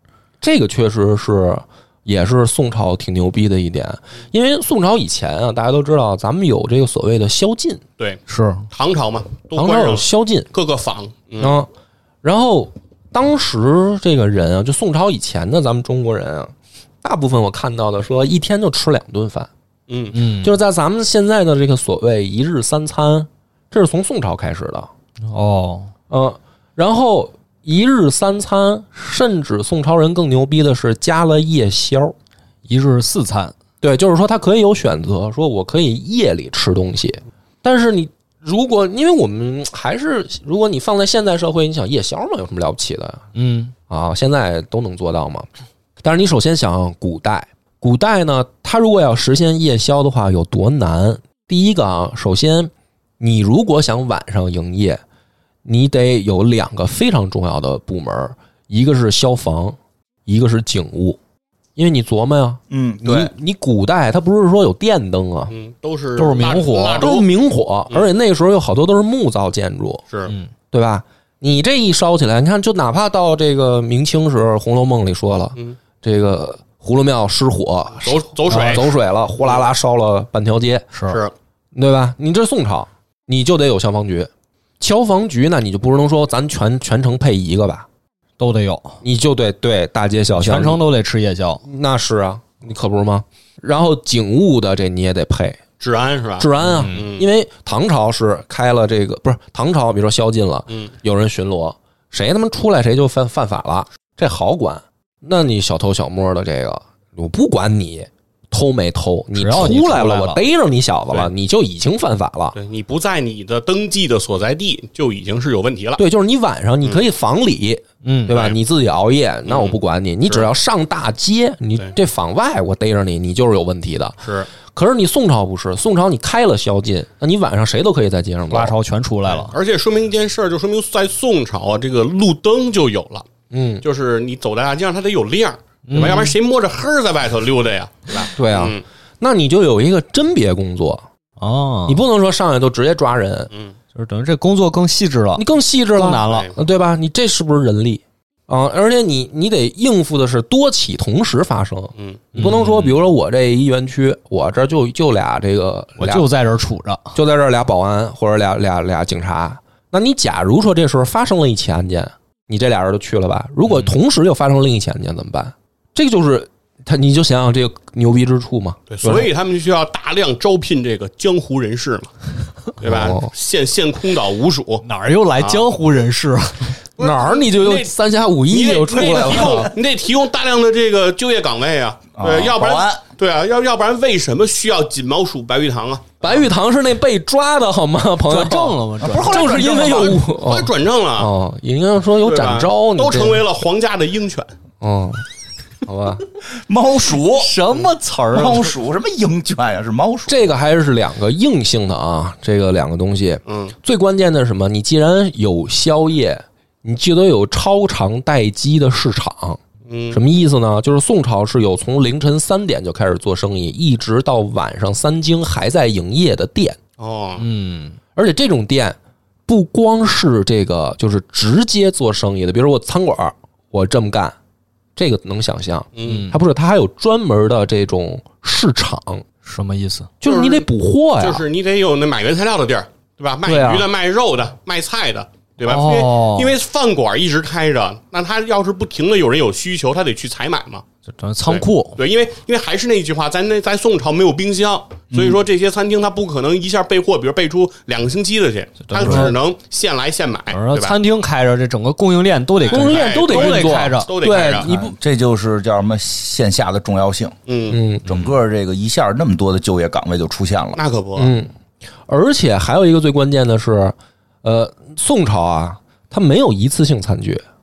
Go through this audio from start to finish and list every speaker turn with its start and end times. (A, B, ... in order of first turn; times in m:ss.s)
0:00.4-0:07.8 A
0:08.0-0:11.6 B
0:08.3-0:08.7 C
0:09.5-0:10.5 A
0:11.4-0:11.7 A
0:12.2-0:19.5 A
0:19.9-0:20.2 B
0:20.1-0:20.6 C
0:20.4-0:24.9 A
0:25.3-0:25.9 C
0:26.1-0:32.1 A
0:32.7-0:33.5 C
0:33.8-0:43.2 A
0:43.3-0:43.7 C
0:43.9-0:45.5 A
0:46.0-0:55.0 A
0:55.6-1:01.2 A
1:01.8-1:05.5 A
1:02.7-1:03.3 D
1:05.5-1:07.3 B
1:06.2-1:07.0 C
1:06.4-1:10.0 A
1:10.1-1:10.3 B
1:10.7-1:20.9 A
1:18.0-1:19.6 B
1:18.5-1:18.9 C
1:20.9-1:21.2 C
1:21.7-1:27.9 A
1:28.4-1:29.0 C
1:29.0-1:30.8 A
1:30.3-1:31.6 C
1:31.6-1:35.6 A
1:35.8-1:37.3 B
1:36.4-1:52.6 A
1:36.6-1:37.0 C
1:49.4-1:50.4 C
1:52.5-1:56.0 B
1:56.0-2:08.7 A
1:58.0-1:58.3 C
1:58.3-1:58.6 B
1:59.4-2:00.5 B
2:08.5-2:09.5 C
2:09.2-2:13.3 B
2:13.5-2:13.8 A
2:13.8-2:18.8 B
2:15.9-2:16.3 C
2:18.4-2:21.0 A
2:21.4-2:22.0 C
2:21.9-2:23.5 A
2:23.9-2:26.5 C
2:25.4-2:36.3 A
2:26.2-2:26.6 B
2:32.3-2:33.0 C
2:36.0-2:37.1 C
2:37.1-2:49.3 A
2:48.9-2:52.1 B
2:52.8-2:55.7 B
2:52.8-2:53.3 A
2:54.8-2:56.8 C
2:57.0-2:57.9 B
2:57.0-2:59.7 A
2:58.5-3:06.4 B
3:02.2-3:03.0 D
3:06.2-3:13.4 A
3:08.3-3:10.2 C
3:09.1-3:11.3 B
3:12.2-3:14.5 B
3:14.8-3:15.2 A
3:15.8-3:16.2 A
3:16.5-3:17.6 D
3:17.3-3:18.7 C
3:18.3-3:20.5 D
3:20.3-3:29.6 A
3:23.5-3:23.7 B
3:29.9-3:30.2 B
3:30.1-3:36.8 A
3:37.0-3:37.4 B
3:37.4-3:38.0 C
3:38.2-3:44.3 A
3:45.0-3:49.2 A
3:45.9-3:46.3 B
3:46.0-3:46.4 C
3:49.4-3:50.1 C
3:50.2-3:51.4 A
3:50.2-3:50.7 B
3:51.2-4:00.8 B
3:53.4-3:53.9 A
3:55.6-3:56.5 C
4:01.1-4:02.0 C
4:01.4-4:11.0 B
4:05.1-4:05.4 D
4:08.9-4:09.4 C
4:10.5-4:14.1 C
4:12.6-4:14.7 B
4:12.7-4:14.9 A
4:14.6-4:17.3 D
4:17.5-4:17.8 B
4:17.7-4:18.1 A
4:18.0-4:18.3 C
4:18.0-4:20.8 D
4:20.8-4:21.3 B
4:21.2-4:21.5 A
4:22.1-4:27.4 A